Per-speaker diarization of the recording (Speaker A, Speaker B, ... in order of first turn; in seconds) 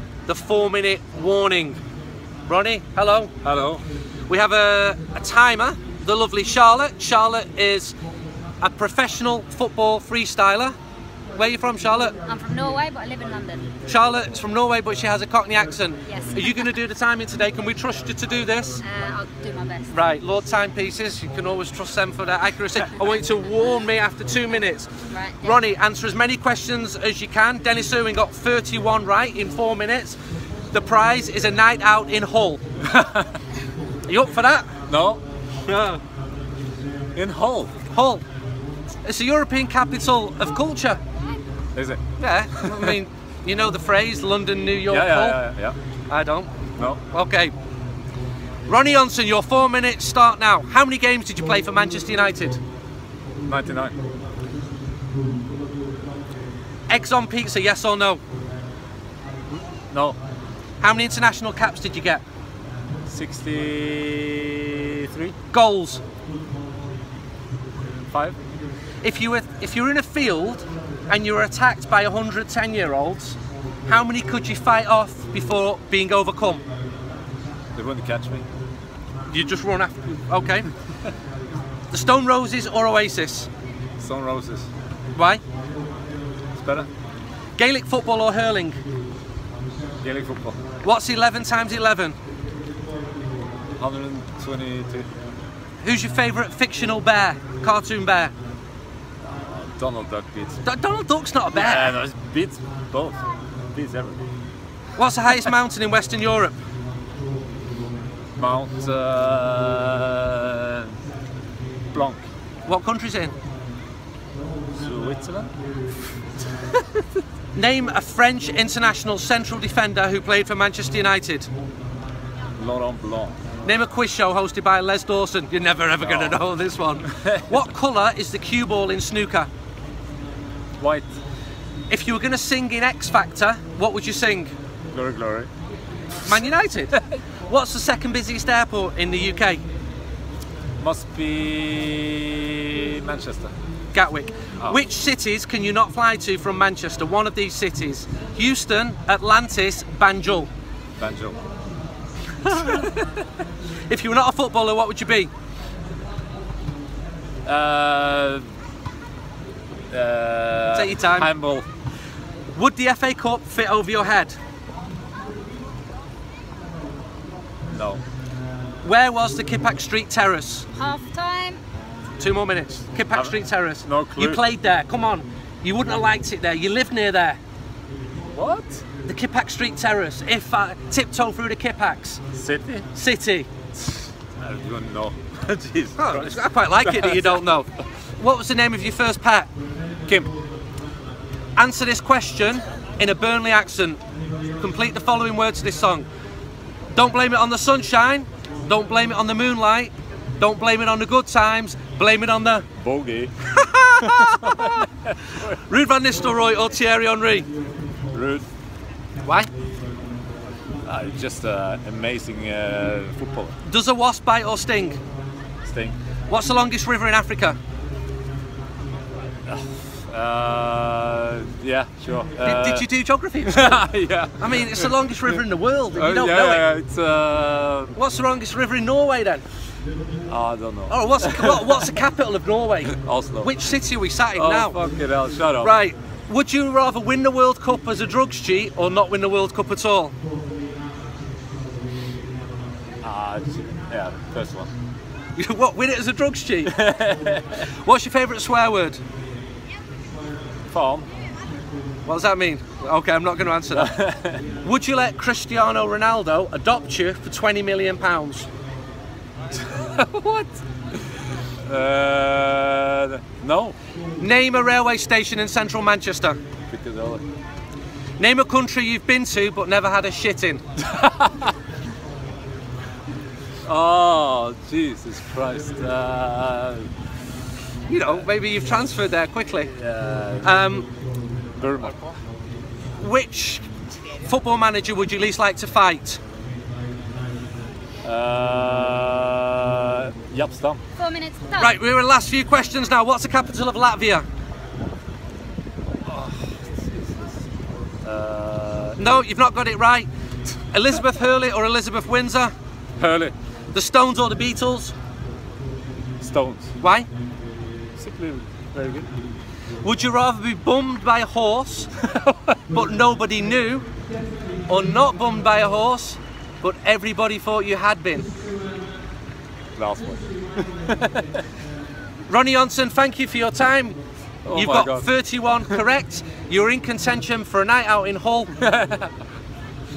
Speaker A: 0.3-1.8, 2.5-3.4, 4.3-7.9, 8.6-10.7, 11.3-12.2, 13.8-18.8, 19.9-30.2, 30.7-32.6, 34.1-34.7, 35.7-36.0, 37.9-38.2, 39.0-41.0, 42.2-45.4, 46.1-46.5, 47.0-47.5, 48.7-52.6, 56.9-58.2, 60.8-62.2, 65.5-66.0, 69.0-76.6, 79.3-80.7, 81.9-83.5, 85.1-85.4, 87.6-88.8, 90.8-92.1, 95.8-98.3, 100.6-102.0, 105.0-106.6, 112.7-113.3, 117.5-121.5, 123.6-129.5, 131.9-134.5, 136.2-139.6, 143.9-150.5, 153.9-155.3, 160.7-161.3, 162.5-164.4, 168.8-170.7, 172.2-177.4, 179.0-182.2, 182.9-183.5, 186.0-187.7, 188.2-189.5, 191.6-194.0, 194.6-196.1, 196.9-202.7, 203.5-204.8, 205.4-207.5, 209.2-209.5, 213.6-215.0, 216.3-217.6, 222.4-223.8, 224.4-226.7, 227.9-229.4, 230.9-234.8, 235.6-240.1, 245.3-246.7, 247.8-249.0, 252.1-253.9, 254.6-258.5, 264.2-266.4, 268.2-270.6, 277.9-279.7, 280.4-280.9, 283.0-283.7, 284.2-286.2, 291.6-294.2, 299.0-300.1, 300.7-302.5, 303.7-304.9, 306.8-307.1, 309.8-311.9, 312.7-313.9, 314.7-318.3, 322.3-324.0, 324.5-328.5
Speaker B: 3.4-3.8, 32.9-33.3, 34.9-35.2, 37.1-37.7, 41.7-42.0, 42.5-43.0, 44.9-45.8, 53.5-54.0, 59.9-60.2, 63.1-65.3, 68.1-68.3, 77.7-78.5, 84.0-84.7, 86.6-86.9, 90.0-90.6, 93.8-95.1, 99.2-100.6, 101.5-103.2, 103.7-104.2, 108.4-110.9, 111.9-112.2, 114.7-115.5, 122.6-123.4, 126.0-126.4, 127.2-127.5, 130.8-131.1, 134.9-135.5, 140.8-143.5, 151.0-151.4, 152.4-153.0, 157.4-158.4, 159.9-161.7, 167.7-168.0, 173.1-174.4, 178.3-178.8, 182.3-182.8, 184.4-187.6, 202.8-203.3, 204.0-205.4, 208.1-208.4, 210.8-213.5, 215.6-216.0, 219.5-222.9, 223.4-225.4, 225.9-227.9, 230.3-231.8, 233.0-233.5, 234.3-235.7, 243.0-244.7, 246.7-247.6, 250.7-251.1, 253.7-254.4, 259.7-261.1, 261.6-263.8, 266.7-267.2, 270.9-271.5, 273.7-276.9, 279.7-280.6, 281.6-282.1, 288.0-290.8, 296.1-297.3, 298.0-299.2, 303.0-303.3, 306.2-306.7, 308.0-309.1, 319.8-321.4, 324.4-325.8, 328.6-329.1
Speaker C: 12.2-13.7, 16.1-16.6, 18.8-19.9, 25.1-25.6, 170.7-171.6, 291.0-291.8